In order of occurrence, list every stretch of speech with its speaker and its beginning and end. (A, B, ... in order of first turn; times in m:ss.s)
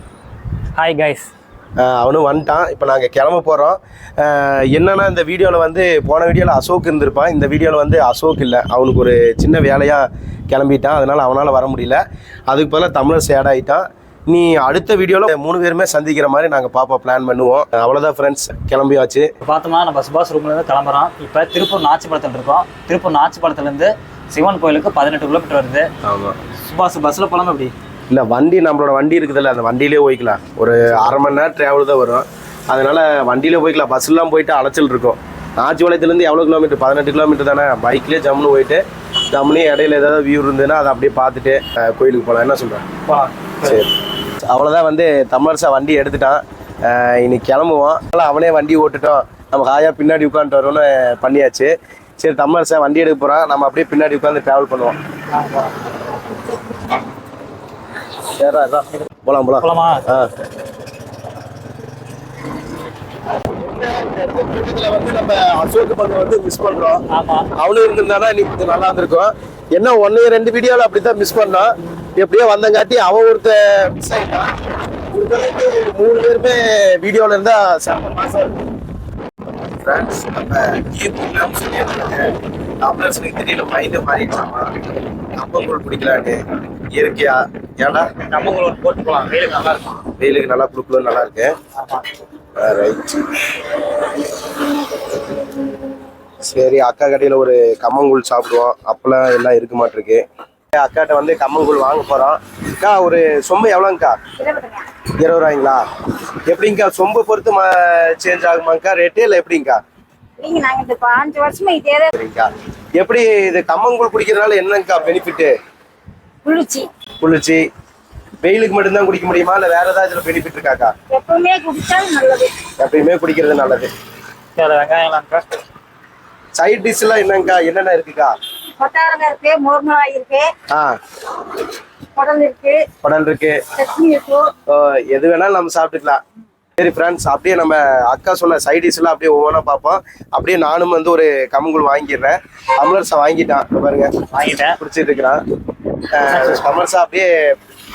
0:00.8-0:01.3 A
0:01.8-0:19.3 B
0:19.4-0:25.9 A
0:26.0-0:26.4 B
0:26.6-0:27.7 A
0:28.1-0:42.8 B
0:43.0-0:43.8 A
0:43.6-0:55.0 B
0:55.3-0:55.8 A
0:58.3-1:00.3 B
0:59.6-1:00.0 A
1:03.4-1:07.0 B
1:07.1-1:07.5 A
1:07.6-1:14.5 B
1:15.1-1:18.5 B
1:19.8-1:24.8 B
1:25.4-1:26.4 B
1:26.9-1:28.1 B
1:28.2-1:30.0 A
1:30.2-1:31.5 B
1:31.8-1:32.0 A
1:32.6-1:34.2 B
1:36.4-1:44.2 B
1:44.4-1:44.8 C
1:45.2-1:45.8 B
1:46.5-1:49.8 B
1:50.4-1:52.1 C
1:52.1-1:55.5 B
1:56.4-1:56.9 C
1:57.2-1:57.6 B
1:58.4-2:00.9 B
2:01.1-2:02.6 C
2:02.8-2:03.9 B
2:04.6-2:05.4 A
2:06.6-2:08.3 B
2:08.8-2:10.5 C
2:10.7-2:11.0 B
2:12.1-2:12.8 C
2:13.0-2:13.7 B
2:13.8-2:14.5 C
2:14.7-2:16.2 B
2:16.8-2:24.2 B
2:24.3-2:24.8 A
2:24.8-2:25.4 B
2:26.0-2:27.3 B
2:26.3-2:26.8 A